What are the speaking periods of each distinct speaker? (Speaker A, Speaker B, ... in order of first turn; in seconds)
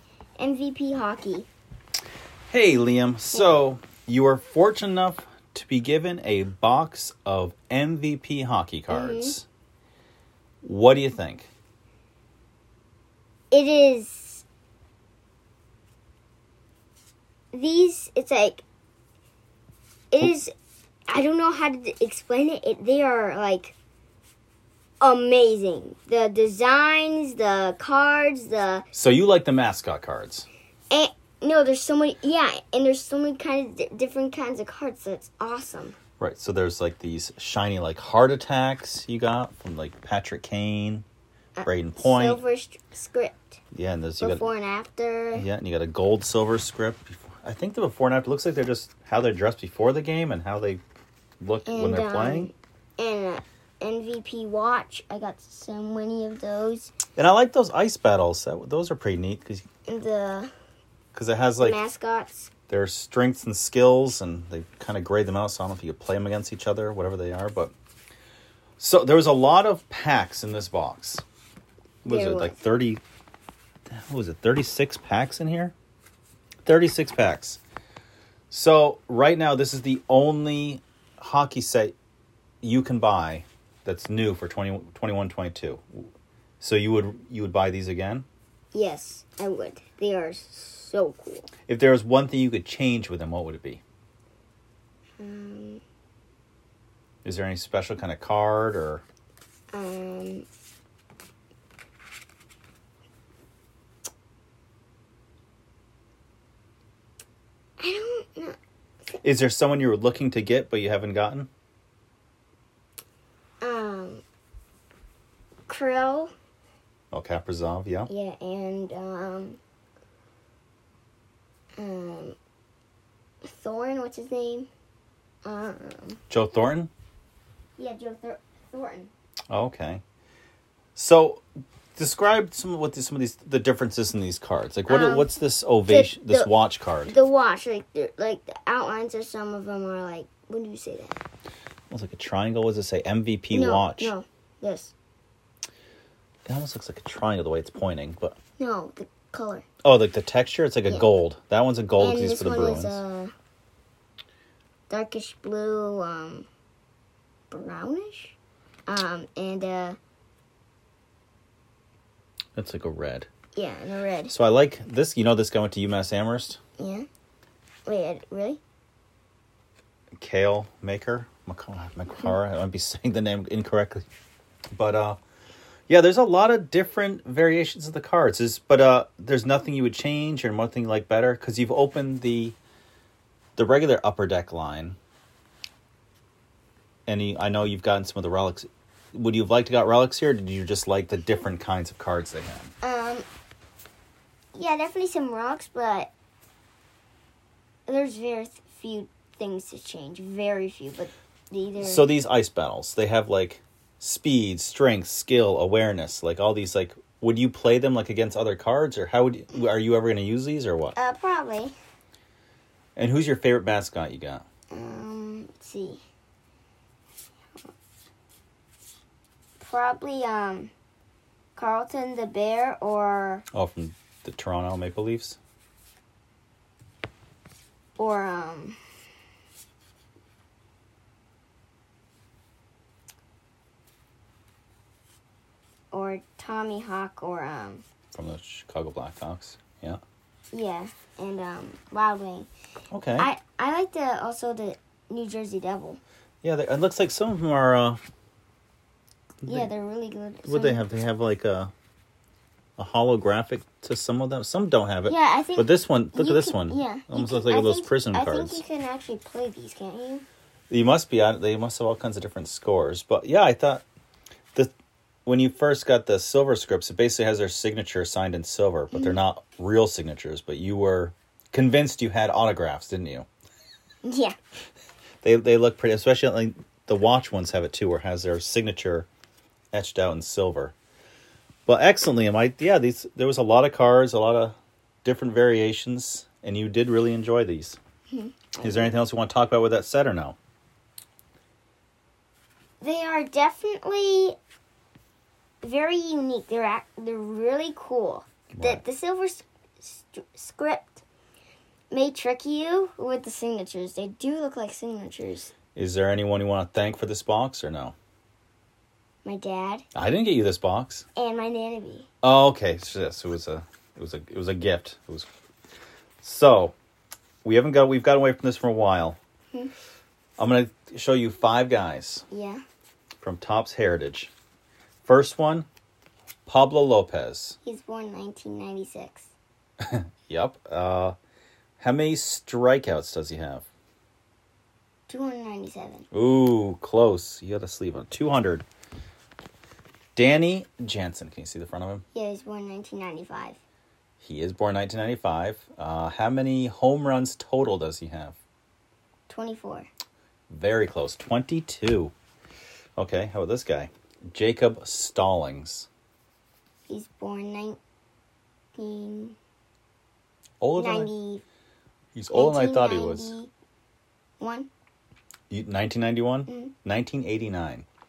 Speaker A: 0.4-1.5, 3.3-3.6, 8.9-9.3, 13.5-14.4, 17.5-18.6, 20.1-20.5, 21.1-23.7, 25.0-28.8, 30.9-36.0, 41.5-43.6, 44.2-45.5, 51.6-56.9, 59.9-60.5, 61.6-62.5, 72.0-72.6, 88.7-91.5, 95.2-95.8, 99.7-100.5, 107.8-108.6, 113.6-114.2, 115.7-116.3, 118.1-119.6, 121.8-122.4, 123.4-124.7, 125.4-126.2, 127.8-129.1, 134.9-135.3, 135.9-136.5, 137.0-141.2, 143.5-144.9, 148.6-149.7, 152.0-153.3, 154.9-156.5, 157.5-160.0, 163.5-164.3, 166.8-167.1, 167.9-168.6, 192.8-193.2, 194.5-196.1, 197.9-202.1, 210.9-211.7, 214.7-216.0, 219.6-220.7, 221.5-223.4, 228.0-228.8, 235.9-237.8, 240.5-242.5, 243.2-246.0, 249.4-250.8, 255.1-260.2, 268.9-269.2, 274.0-274.4, 288.1-288.9, 292.8-294.4, 295.6-301.0, 301.9-305.5, 309.2-309.9, 311.1-312.1, 322.3-322.6, 327.6-329.3, 335.1-336.1, 342.1-343.6, 349.3-349.9, 356.9-357.8, 358.7-359.4, 360.7-361.4, 362.3-363.5, 364.4-364.7, 366.5-366.7
Speaker B: 2.5-9.4, 10.6-11.5, 28.9-30.5, 36.2-41.0, 41.6-42.4, 43.7-44.5, 45.3-50.8, 51.4-52.5, 57.2-59.6, 61.1-61.8, 62.7-67.7, 68.8-71.2, 72.0-73.0, 73.9-75.7, 76.6-77.6, 78.5-81.9, 82.6-88.2, 91.7-93.8, 97.2-99.0, 109.2-111.5, 117.1-118.1, 126.3-126.9, 129.5-130.0, 130.9-131.4, 131.9-137.2, 141.9-144.1, 146.5-148.4, 149.8-153.0, 162.6-163.3, 164.3-166.6, 170.2-174.0, 174.7-175.2, 175.9-182.6, 183.6-185.0, 187.1-192.7, 201.8-211.0, 212.9-214.4, 223.5-225.4, 238.1-240.0, 242.9-243.3, 246.4-248.0, 249.4-249.7, 250.4-251.7, 252.8-258.6, 260.7-263.8, 265.2-273.3, 275.2-279.1, 279.7-280.7, 281.6-287.8, 288.6-290.4, 298.5-298.8, 305.8-307.9, 309.9-311.1, 312.2-315.3, 316.2-316.7, 317.4-319.2, 320.4-322.2, 323.2-324.3, 325.0-325.7, 326.4-327.6, 329.8-331.1, 331.8-333.6, 336.1-338.6, 340.1-342.0, 344.2-348.4, 350.5-352.1, 353.0-355.9, 360.6-361.1, 362.1-363.3, 365.5-367.9